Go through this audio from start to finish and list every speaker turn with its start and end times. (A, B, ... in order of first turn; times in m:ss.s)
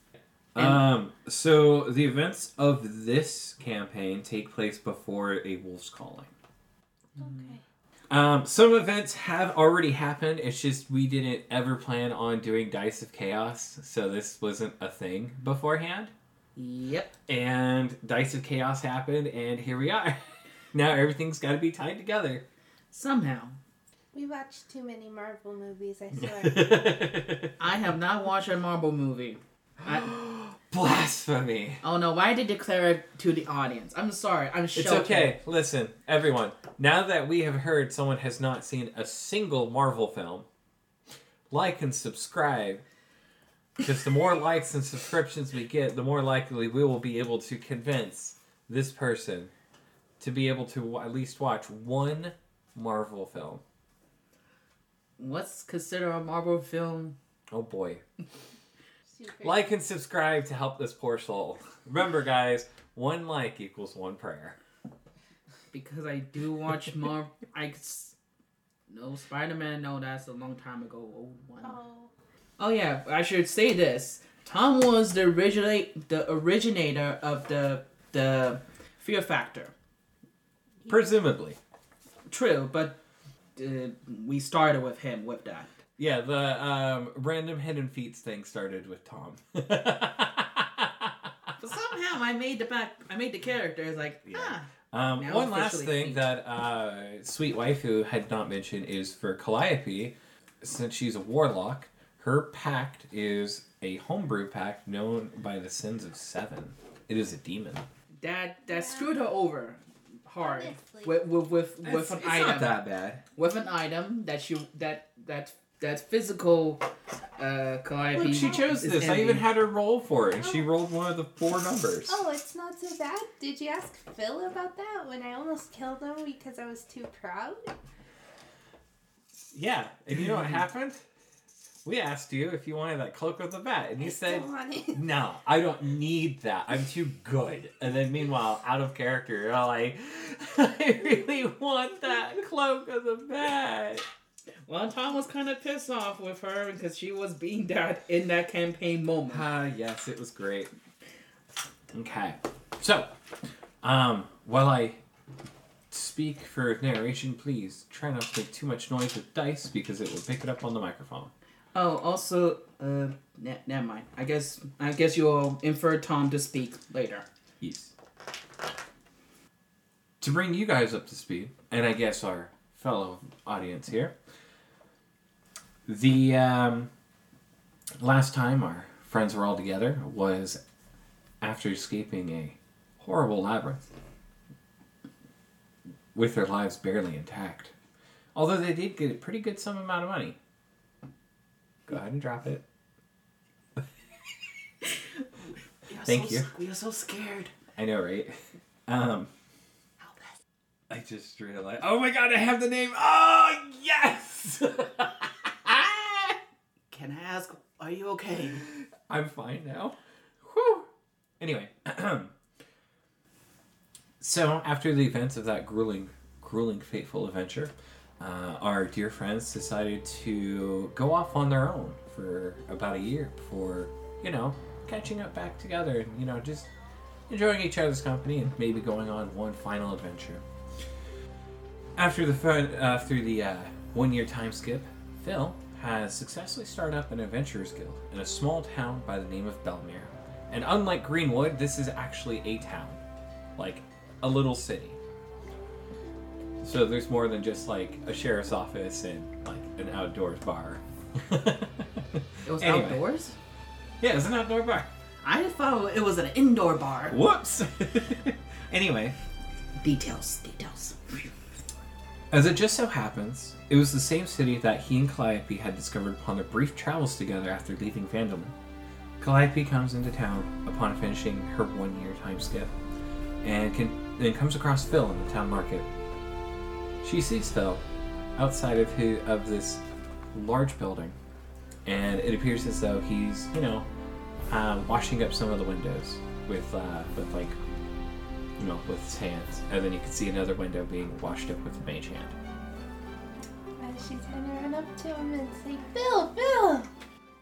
0:00.6-0:06.3 A
0:00.6-0:00.8 B
0:07.2-0:07.5 B
0:07.2-0:07.6 C
0:08.1-0:16.1 A
0:16.6-0:17.1 B
0:17.3-0:20.2 A
0:20.7-0:22.4 A
0:22.9-0:23.6 B
0:24.1-0:27.0 C
0:26.2-0:27.6 A
0:27.6-0:30.1 B
0:29.8-0:31.8 A
0:31.8-0:35.3 B
0:34.8-0:40.5 A
0:41.5-0:42.8 A
0:43.8-0:49.5 A
0:50.2-0:53.6 A
0:55.2-0:57.2 B
0:57.5-0:58.0 A
0:59.1-0:59.6 C
0:59.4-1:04.6 A
1:05.7-1:08.2 B
1:08.9-1:11.8 B
1:11.6-1:12.1 C
1:12.6-1:19.7 B
1:20.9-1:21.6 A
1:22.3-1:23.0 B
1:23.6-1:25.7 B
1:26.0-1:31.5 A
1:31.6-1:34.7 B
1:34.3-1:47.9 A
1:35.2-1:36.2 B
1:48.2-1:52.8 B
1:48.6-1:49.2 C
1:50.4-1:51.2 C
1:51.8-1:53.2 A
1:53.4-1:56.9 B
1:57.4-1:59.5 B
1:58.2-2:02.2 A
2:00.4-2:00.7 C
2:02.1-2:07.7 C
2:09.5-2:11.0 A
2:11.8-2:24.0 A
2:14.0-2:15.0 C
2:24.7-2:29.5 B
2:29.3-2:30.7 A
2:31.9-2:33.1 A
2:33.8-2:35.0 A
2:35.9-2:41.3 A
2:41.7-2:47.3 B
2:47.6-2:47.9 A
2:50.2-2:54.1 A
2:55.9-2:56.9 A
2:58.0-3:00.6 A
3:01.4-3:03.8 A
3:06.1-3:07.7 A
3:08.4-3:10.4 A
3:11.9-3:12.6 A
3:15.9-3:17.5 B
3:16.0-3:16.5 A
3:17.8-3:18.4 A
3:18.9-3:19.3 A
3:20.0-3:20.4 B
3:20.9-3:26.4 A
3:26.9-3:28.6 B
3:28.7-3:30.9 A
3:31.4-3:32.3 A
3:34.2-3:46.7 A
3:47.3-3:50.4 A
3:52.0-4:03.0 A
4:03.6-4:05.0 A
4:06.6-4:13.0 A
4:12.5-4:13.4 B
4:14.0-4:14.9 A
4:15.2-4:17.2 B
4:17.1-4:19.2 A
4:19.8-4:21.3 B
4:22.3-4:28.6 A
4:29.2-4:32.7 A
4:33.4-4:35.9 A
4:37.0-4:37.8 A
4:38.4-4:39.8 A
4:40.3-4:41.2 A
4:41.9-4:43.9 A
4:44.5-4:47.6 A
4:48.6-4:52.4 A
4:53.8-4:56.9 C